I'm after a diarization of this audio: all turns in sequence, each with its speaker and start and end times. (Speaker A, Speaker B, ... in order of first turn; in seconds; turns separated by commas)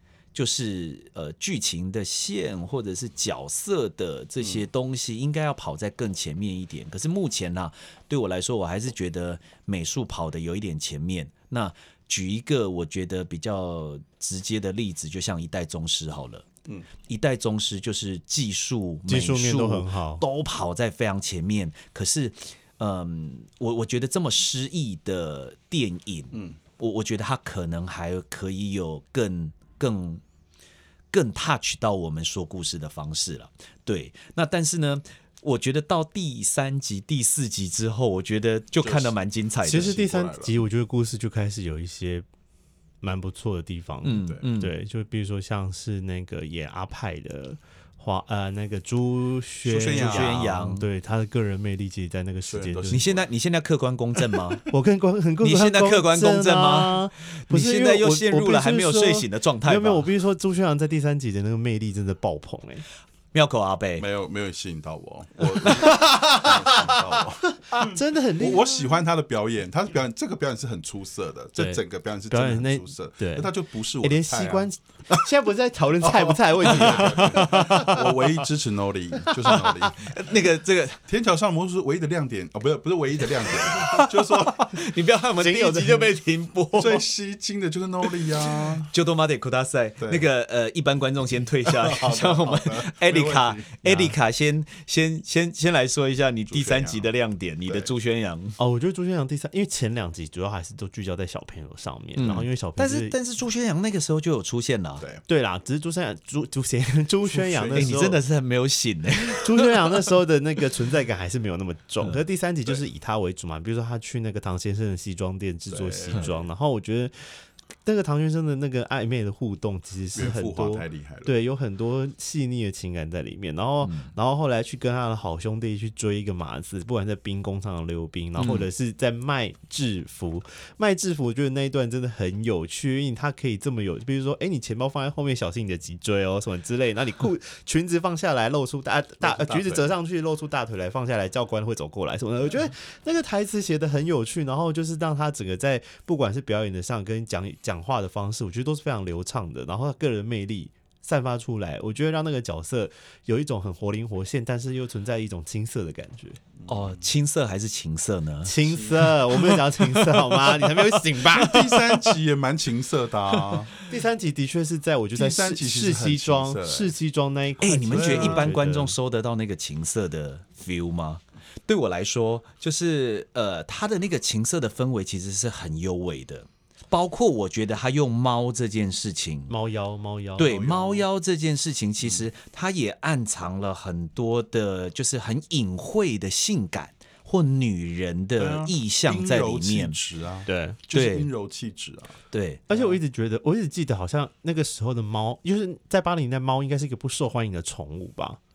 Speaker A: 0.3-16.5, Speaker B: 4.4-4.7, Speaker A: 17.0-30.2, Speaker C: 19.1-20.2, Speaker B: 26.3-26.6, Speaker A: 31.1-40.0, Speaker B: 38.8-40.6, Speaker C: 39.6-42.2, Speaker C: 43.0-53.1, Speaker A: 44.0-44.7, Speaker B: 49.6-50.4, Speaker A: 49.9-50.9, Speaker B: 52.5-53.3, Speaker A: 52.9-54.6, Speaker C: 54.7-62.8, Speaker A: 55.4-60.1, Speaker A: 63.3-64.0, Speaker B: 64.0-75.3, Speaker C: 65.6-66.8, Speaker A: 65.6-66.5, Speaker C: 67.7-69.0, Speaker C: 71.6-78.5, Speaker B: 76.0-80.2, Speaker C: 79.2-79.9, Speaker A: 80.0-81.0, Speaker B: 81.1-84.8, Speaker A: 84.6-87.0, Speaker C: 85.4-86.1, Speaker B: 86.7-88.9, Speaker A: 88.8-98.6, Speaker B: 90.0-90.2, Speaker B: 91.6-93.8, Speaker C: 93.8-94.1, Speaker B: 96.5-97.1, Speaker C: 98.6-103.2, Speaker A: 102.2-105.0, Speaker C: 105.3-108.2, Speaker B: 107.3-108.2, Speaker A: 107.7-109.9, Speaker C: 109.4-117.1, Speaker B: 115.7-116.4, Speaker C: 117.8-156.4, Speaker B: 120.1-121.3, Speaker A: 123.8-124.1, Speaker A: 128.4-128.7, Speaker B: 139.2-139.9, Speaker B: 156.6-157.0, Speaker A: 156.7-158.6, Speaker C: 158.4-161.8, Speaker B: 158.6-159.1, Speaker A: 159.3-161.0, Speaker B: 161.3-163.7, Speaker C: 163.8-168.9, Speaker B: 165.1-166.9, Speaker A: 167.6-179.5, Speaker B: 167.9-168.5, Speaker C: 179.5-180.6, Speaker A: 180.4-190.0, Speaker B: 180.4-181.0, Speaker B: 188.4-192.2, Speaker C: 190.5-190.8, Speaker A: 190.9-191.3, Speaker A: 192.3-192.9, Speaker C: 192.7-198.4